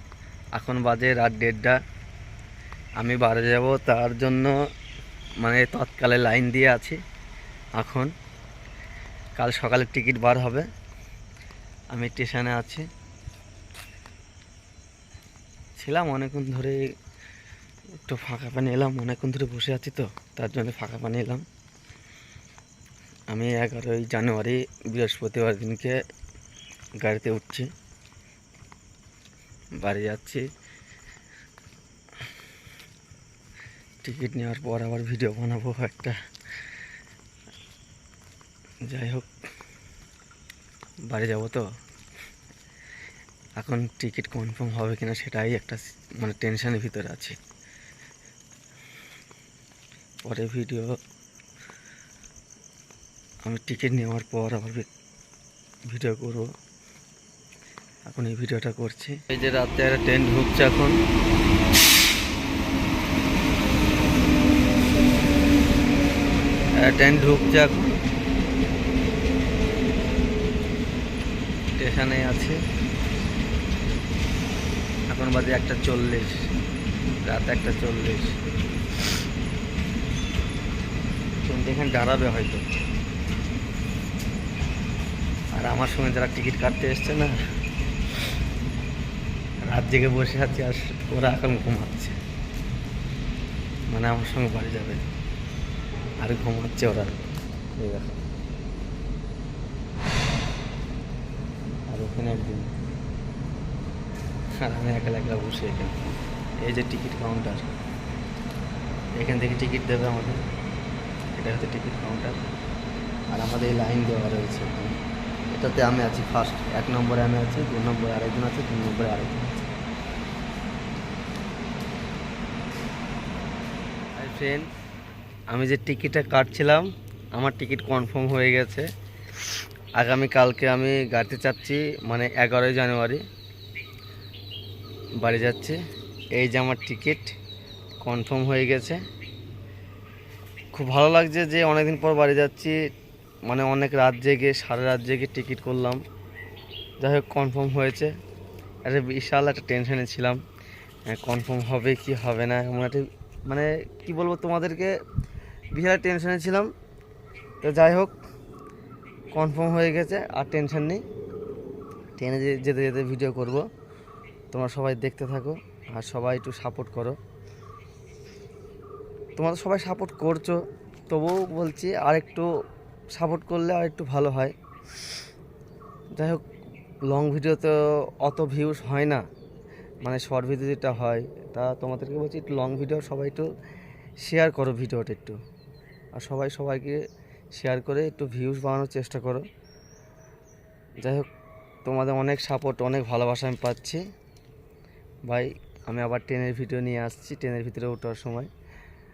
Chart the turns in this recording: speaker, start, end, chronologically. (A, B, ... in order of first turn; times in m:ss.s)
0:00.6-0:01.8 A
0:03.0-0:04.5 A
0:05.4-0:07.0 A
0:07.8-0:08.1 A
0:09.4-0:10.7 A
0:11.9-0:12.8 A
0:15.8-0:16.8 A
0:18.0-0:21.4 A
0:23.3-0:26.0 A
0:27.0-0:27.7 A
0:29.8-0:30.4 A
0:34.0-0:36.1 A
0:38.9-0:39.3 A
0:41.1-0:41.6 A
0:43.6-0:47.4 A
0:50.2-0:50.9 A
0:53.4-0:54.9 A
0:55.9-0:56.5 A
0:58.1-1:01.0 A
1:06.8-1:08.0 A
1:11.8-1:12.6 A
1:15.1-1:16.3 A
1:17.2-1:18.3 A
1:21.4-1:22.6 A
1:25.5-1:27.4 A
1:29.7-1:32.1 A
1:33.9-1:35.0 A
1:36.2-1:37.1 A
1:37.8-1:38.2 A
1:41.9-1:42.7 A
1:44.6-1:46.0 A
1:46.6-1:47.8 A
1:49.2-1:50.4 A
1:51.4-1:52.5 A
1:53.3-1:54.9 A
1:55.5-1:59.6 A
2:04.1-2:04.7 A
2:05.5-2:08.9 A
2:10.0-2:13.2 A
2:15.2-2:15.8 A
2:16.4-2:17.3 A
2:18.0-2:19.0 A
2:20.7-2:22.8 A
2:23.5-2:26.0 A
2:27.0-2:28.1 A
2:28.8-2:30.4 A
2:31.1-2:34.9 A
2:35.7-2:36.7 A
2:37.6-2:38.1 A
2:39.3-2:41.0 A
2:42.2-2:43.6 A
2:44.5-2:47.2 A
2:49.4-2:52.5 A
2:53.1-2:54.5 A
2:56.1-2:56.4 A
2:57.1-2:59.2 A
3:00.0-3:03.5 A
3:04.2-3:05.4 A
3:06.2-3:07.0 A
3:07.5-3:09.4 A
3:11.0-3:11.3 A
3:11.8-3:14.0 A
3:15.3-3:18.5 A